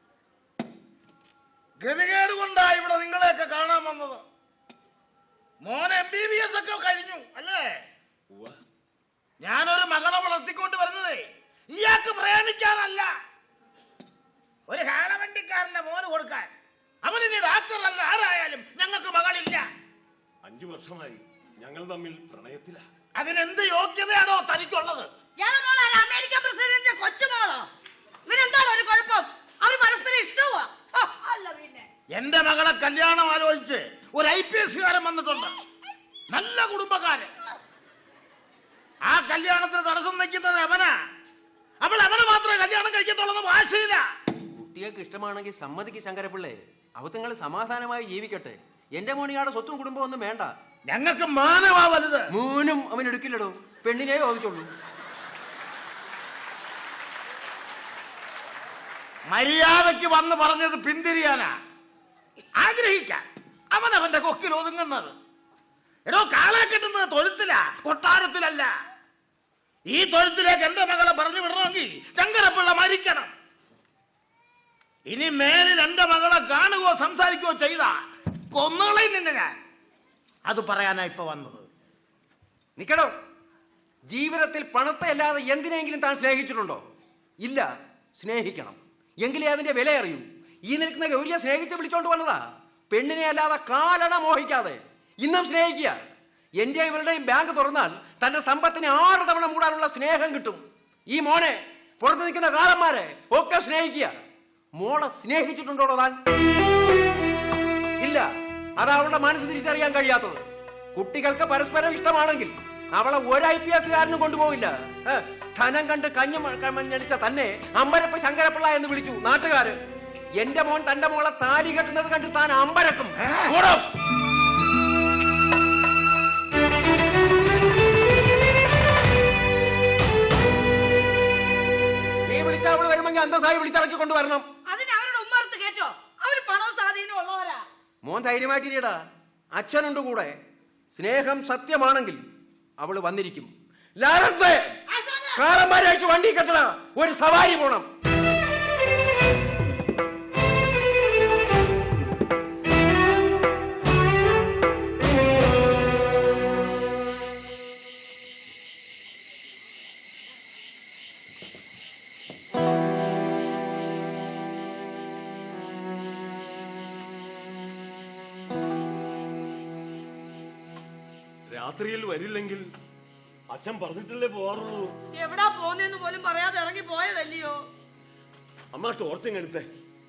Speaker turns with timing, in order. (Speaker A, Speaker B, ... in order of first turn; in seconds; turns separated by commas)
Speaker A: 1.8-4.2, Speaker A: 5.6-7.7, Speaker B: 8.3-8.6, Speaker A: 9.4-13.1, Speaker A: 14.7-16.5, Speaker A: 17.0-19.6, Speaker B: 20.4-22.9, Speaker A: 23.1-25.1, Speaker C: 25.4-27.7, Speaker C: 28.2-31.9, Speaker A: 32.1-35.5, Speaker A: 36.3-37.3, Speaker A: 39.0-40.9, Speaker A: 41.8-44.0, Speaker D: 44.5-50.5, Speaker A: 50.9-52.2, Speaker D: 52.3-54.7, Speaker A: 59.3-61.5, Speaker A: 62.5-65.1, Speaker A: 66.1-68.7, Speaker A: 69.9-73.3, Speaker A: 75.1-78.0, Speaker A: 78.5-79.6, Speaker A: 80.5-81.7, Speaker D: 82.8-83.1, Speaker D: 84.1-86.8, Speaker D: 87.4-96.0, Speaker D: 96.6-104.1, Speaker D: 104.8-106.2, Speaker D: 108.0-110.4, Speaker D: 110.9-119.8, Speaker D: 120.4-123.8, Speaker A: 123.2-123.8, Speaker D: 132.2-134.4, Speaker C: 134.7-137.6, Speaker D: 138.0-139.0, Speaker D: 139.5-140.3, Speaker D: 140.9-142.2, Speaker D: 142.8-144.7, Speaker C: 144.9-145.3, Speaker D: 145.3-147.9, Speaker B: 171.5-172.7, Speaker B: 173.5-174.9, Speaker C: 175.1-177.6, Speaker B: 178.7-179.7